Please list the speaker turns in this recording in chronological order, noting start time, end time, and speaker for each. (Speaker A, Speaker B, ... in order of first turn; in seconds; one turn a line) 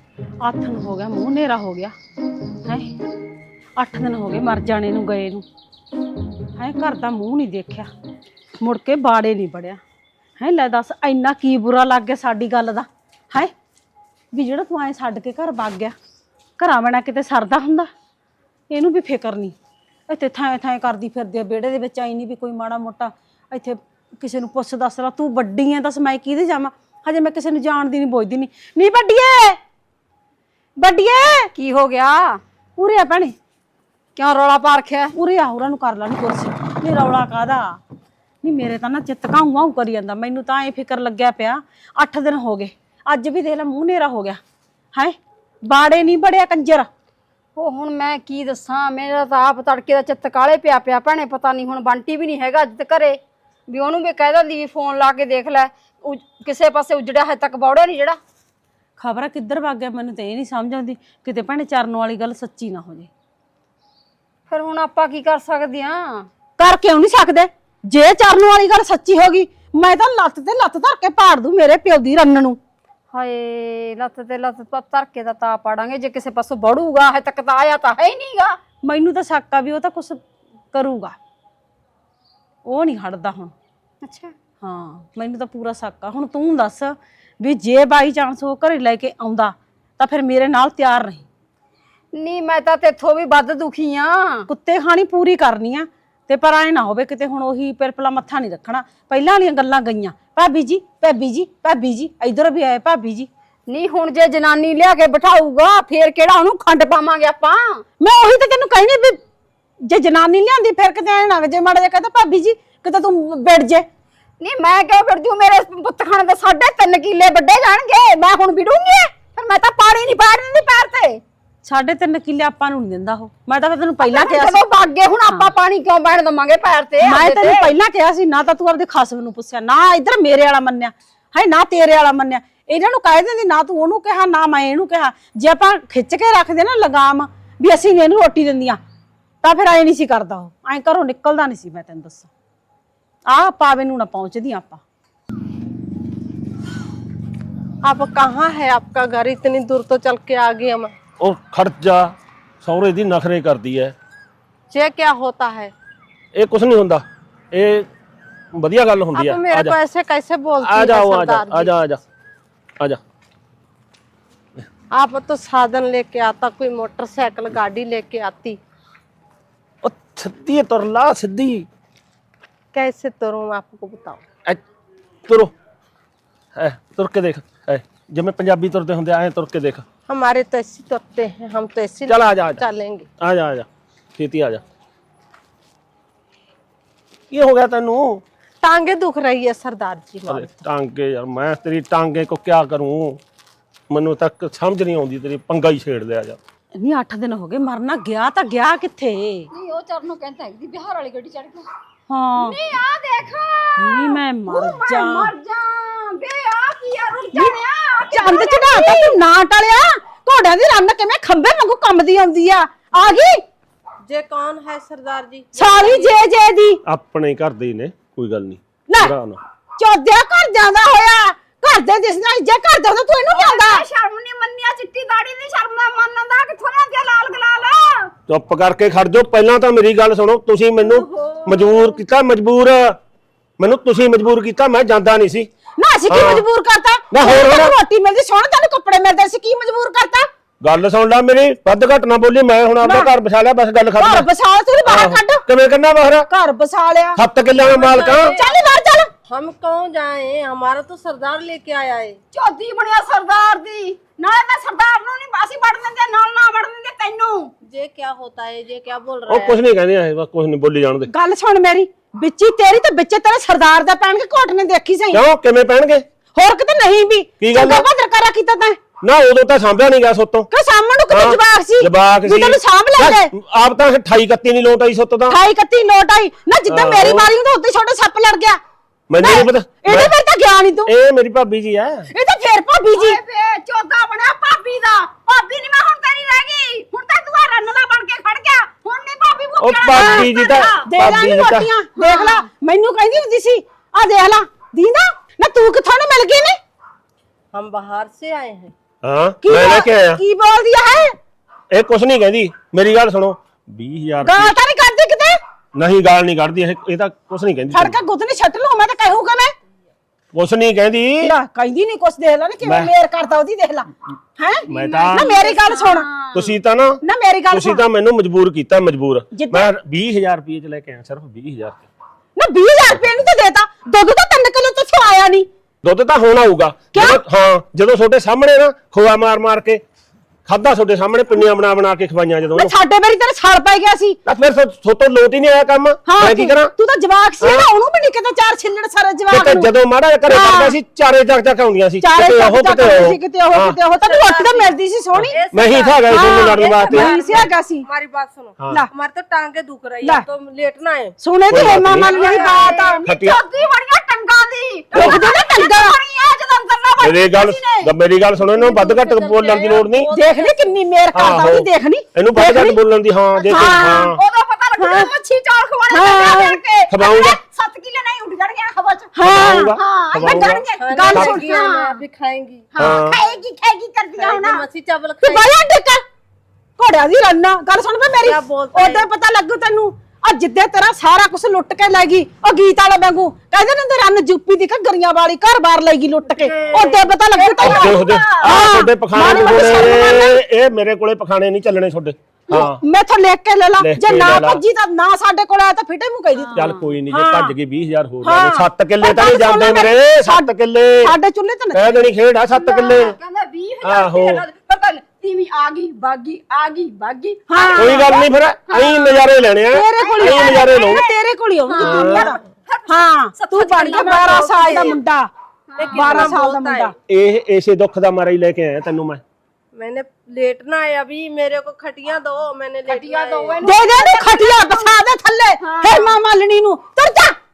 Speaker A: 0.4-1.9
Speaker A: 2.6-2.9
Speaker A: 3.8-5.5
Speaker A: 6.5-7.9
Speaker A: 8.6-9.8
Speaker A: 10.4-13.5
Speaker A: 14.3-15.9
Speaker A: 16.6-17.9
Speaker A: 18.7-19.6
Speaker A: 20.1-29.6
Speaker A: 30.8-31.5
Speaker B: 31.6-32.4
Speaker A: 32.8-33.3
Speaker B: 34.2-35.1
Speaker A: 35.1-37.8
Speaker A: 38.4-44.4
Speaker A: 44.9-46.9
Speaker B: 47.6-58.2
Speaker A: 59.0-63.1
Speaker B: 64.5-66.3
Speaker A: 66.6-72.6
Speaker B: 73.1-78.6
Speaker A: 78.8-80.2
Speaker A: 80.7-81.2
Speaker A: 82.7-83.5
Speaker B: 84.0-84.3
Speaker A: 84.6-91.2
Speaker B: 92.1-94.5
Speaker A: 94.5-103.3
Speaker B: 103.7-107.8
Speaker A: 108.0-109.2
Speaker A: 109.9-113.9
Speaker B: 114.4-121.2
Speaker A: 121.6-124.6
Speaker B: 124.0-127.7
Speaker A: 127.0-138.8
Speaker A: 139.4-142.3
Speaker A: 143.3-144.8
Speaker C: 147.8-150.9
Speaker D: 151.2-153.9
Speaker C: 154.7-155.7
Speaker D: 156.3-157.9
Speaker D: 158.6-159.8
Speaker C: 159.2-161.8
Speaker D: 160.6-162.0
Speaker C: 164.9-168.6
Speaker D: 169.8-171.7
Speaker C: 172.7-174.2
Speaker D: 175.3-175.5
Speaker D: 176.6-179.8
Speaker C: 180.1-183.1
Speaker D: 182.1-182.6
Speaker D: 183.2-183.7
Speaker D: 184.2-184.6
Speaker D: 187.3-188.2
Speaker C: 188.6-190.5
Speaker D: 190.3-193.2
Speaker D: 193.9-196.4
Speaker A: 196.8-199.5
Speaker B: 199.5-201.7
Speaker A: 202.1-202.6
Speaker B: 202.4-209.2
Speaker A: 203.8-205.3
Speaker A: 208.1-213.4
Speaker C: 214.1-215.8
Speaker A: 215.6-216.8
Speaker B: 215.6-216.1
Speaker D: 216.8-219.4
Speaker A: 219.8-223.8
Speaker B: 223.3-228.1
Speaker D: 228.3-233.0
Speaker B: 230.8-232.0
Speaker D: 233.6-235.5
Speaker A: 235.8-240.3
Speaker D: 236.1-236.4
Speaker D: 237.1-237.8
Speaker D: 240.6-244.3
Speaker A: 242.8-243.1
Speaker A: 244.0-245.4
Speaker D: 244.8-246.3
Speaker A: 246.3-247.2
Speaker D: 247.2-248.4
Speaker C: 247.6-248.4
Speaker A: 248.4-249.1
Speaker C: 249.3-252.2
Speaker B: 252.3-257.5
Speaker C: 257.6-259.6
Speaker D: 259.3-261.1
Speaker A: 261.1-265.2
Speaker D: 265.1-266.1
Speaker A: 266.4-268.8
Speaker D: 267.4-267.9
Speaker D: 269.0-270.5
Speaker A: 270.5-273.3
Speaker D: 271.1-275.4
Speaker A: 275.3-278.6
Speaker D: 276.7-277.3
Speaker D: 279.1-280.1
Speaker A: 279.2-280.9
Speaker D: 280.9-282.1
Speaker A: 282.1-283.2
Speaker B: 282.9-290.9
Speaker D: 289.6-291.7
Speaker A: 289.9-290.3
Speaker A: 290.8-296.6
Speaker B: 292.0-292.5
Speaker C: 297.5-298.7
Speaker D: 299.0-300.2
Speaker A: 299.4-301.2
Speaker D: 301.7-304.6
Speaker A: 304.2-305.4
Speaker D: 305.8-308.0
Speaker A: 307.7-309.5
Speaker D: 310.3-311.3
Speaker A: 311.2-316.1
Speaker D: 312.6-312.9
Speaker B: 314.7-316.6
Speaker D: 314.7-315.4
Speaker D: 316.3-317.0
Speaker A: 317.0-317.9
Speaker D: 317.5-321.9
Speaker A: 319.3-319.7
Speaker A: 322.4-325.5
Speaker D: 325.8-329.8
Speaker A: 326.9-327.2
Speaker D: 330.5-332.7
Speaker A: 332.5-334.2
Speaker D: 334.3-336.7
Speaker A: 336.1-339.7
Speaker D: 337.4-337.7
Speaker D: 339.3-343.8
Speaker A: 340.3-340.8
Speaker A: 342.0-345.4
Speaker C: 344.0-344.7
Speaker D: 345.1-347.3
Speaker C: 345.3-351.2
Speaker A: 346.1-347.9
Speaker A: 351.2-353.0
Speaker D: 351.5-352.2
Speaker B: 352.0-357.9
Speaker C: 352.1-352.8
Speaker D: 353.1-353.4
Speaker D: 354.9-355.3
Speaker A: 354.9-356.0
Speaker D: 357.0-360.1
Speaker C: 358.5-360.1
Speaker B: 360.0-360.6
Speaker A: 360.1-362.8
Speaker D: 361.1-364.2
Speaker B: 363.4-372.0
Speaker A: 363.5-364.1
Speaker A: 364.8-365.1
Speaker A: 365.9-366.6
Speaker D: 366.9-367.4
Speaker A: 369.1-369.8
Speaker D: 369.2-371.4
Speaker C: 370.8-373.1
Speaker A: 370.9-371.6
Speaker B: 372.7-374.6
Speaker D: 372.8-373.2
Speaker C: 374.1-375.5
Speaker A: 375.2-376.0
Speaker A: 376.8-390.4
Speaker C: 378.2-379.1
Speaker C: 386.4-386.8
Speaker B: 386.7-388.4
Speaker D: 387.6-392.8
Speaker B: 389.2-389.6
Speaker A: 392.5-397.5
Speaker D: 393.8-394.6
Speaker B: 396.4-396.8
Speaker D: 396.6-401.1
Speaker A: 398.2-402.0
Speaker D: 401.7-403.2
Speaker B: 402.5-409.3
Speaker D: 403.8-404.4
Speaker A: 407.5-408.1
Speaker D: 407.8-411.0
Speaker A: 409.7-415.3
Speaker B: 410.0-411.2
Speaker B: 411.7-415.0
Speaker D: 411.8-412.3
Speaker C: 414.1-415.0
Speaker B: 415.7-416.4
Speaker C: 415.8-416.9
Speaker A: 415.8-416.9
Speaker D: 417.1-419.2
Speaker C: 419.8-423.7
Speaker B: 422.9-426.1
Speaker A: 423.6-427.4